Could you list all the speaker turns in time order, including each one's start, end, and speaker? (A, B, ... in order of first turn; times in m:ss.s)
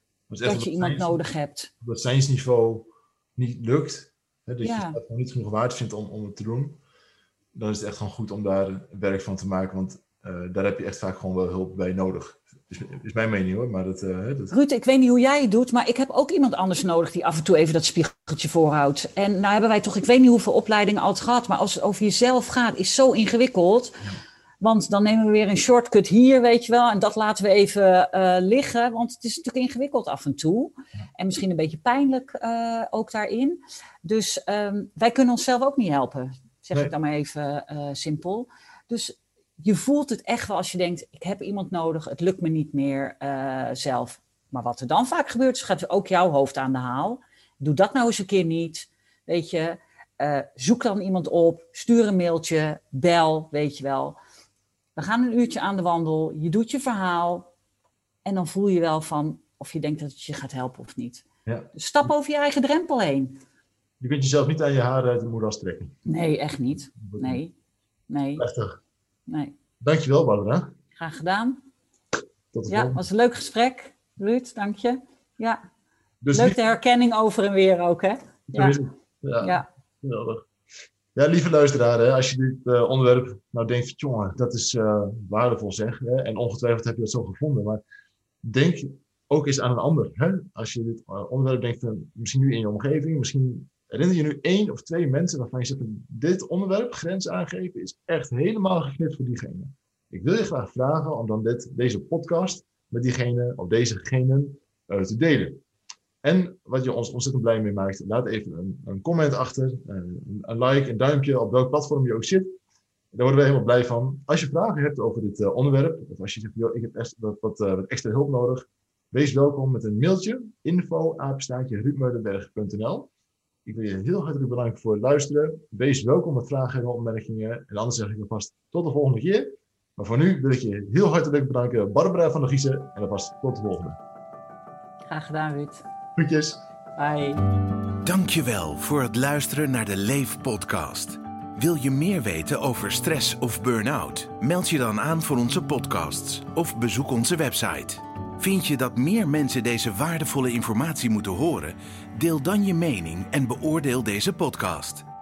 0:00.3-0:01.2 A
0:00.4-0:01.7 B
0:01.8-0:06.8 A
0:04.6-0:05.0 B
0:07.5-0:14.5 A
0:14.5-0:24.0 B
0:24.6-0:54.2 B
0:55.0-0:57.5 B
0:58.2-1:03.4 B
1:04.0-1:06.0 A
1:06.1-1:07.5 B
1:07.0-1:07.4 A
1:08.1-1:08.4 B
1:08.4-1:08.8 A
1:09.3-1:09.5 B
1:09.8-1:10.7 A
1:11.0-1:11.6 B
1:12.5-1:13.0 A
1:12.7-1:15.6 B
1:16.2-1:16.6 A
1:16.3-1:18.8 B
1:18.5-1:20.5 A
1:19.4-1:19.7 B
1:21.2-1:27.8 A
1:28.4-1:45.6 A
1:46.2-1:52.5 A
1:53.1-2:03.1 A
2:03.6-2:14.0 A
2:15.1-2:15.8 B
2:16.2-2:16.6 A
2:17.0-2:17.4 B
2:18.0-2:35.0 C